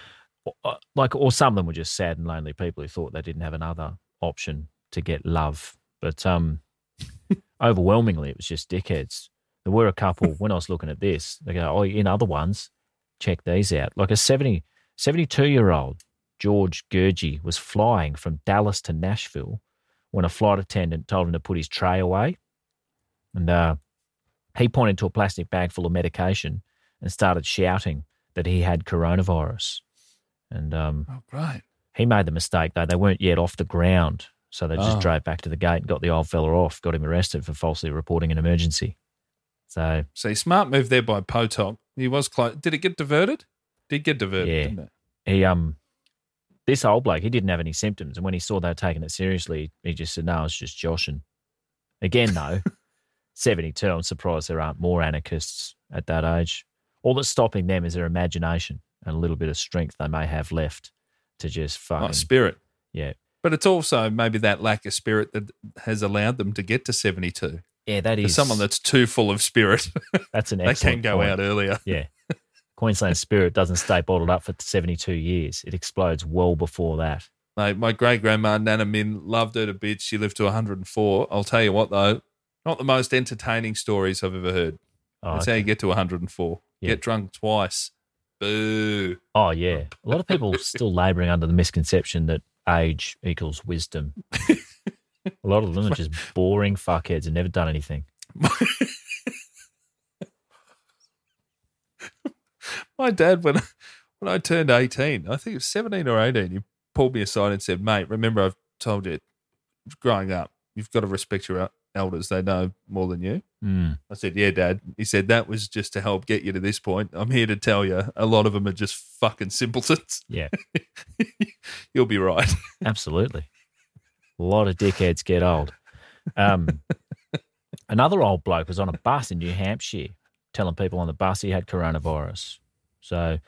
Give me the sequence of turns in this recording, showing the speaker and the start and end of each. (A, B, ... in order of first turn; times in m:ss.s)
0:00.4-0:06.6 A
0:07.6-0:19.6 A
0:20.1-0:22.4 A
0:23.3-0:23.8 A
0:24.5-0:29.8 A
0:30.5-0:31.1 A
0:31.1-0:31.6 B
0:31.9-0:38.9 A
0:34.8-0:35.1 B
0:39.7-0:40.1 A
0:40.2-0:44.9 B
0:44.4-0:44.7 A
0:45.2-0:45.8 A
0:46.7-0:51.2 A
0:52.0-0:52.6 A
0:53.3-1:02.3 A
1:02.0-1:02.6 B
1:03.4-1:07.6 B
1:07.9-1:08.6 A
1:08.2-1:11.8 B
1:10.3-1:12.1 A
1:12.8-1:17.3 A
1:17.6-1:24.8 B
1:25.2-1:25.7 A
1:25.3-1:29.2 B
1:29.3-1:34.2 A
1:30.1-1:30.6 B
1:35.4-1:38.1 A
1:38.4-1:39.3 B
1:42.6-1:43.7 B
1:44.2-1:49.2 B
1:49.9-1:53.4 B
1:53.6-1:54.0 A
1:54.1-2:02.7 B
2:02.8-2:03.5 A
2:04.4-2:05.7 A
2:06.3-2:06.8 A
2:07.9-2:13.4 A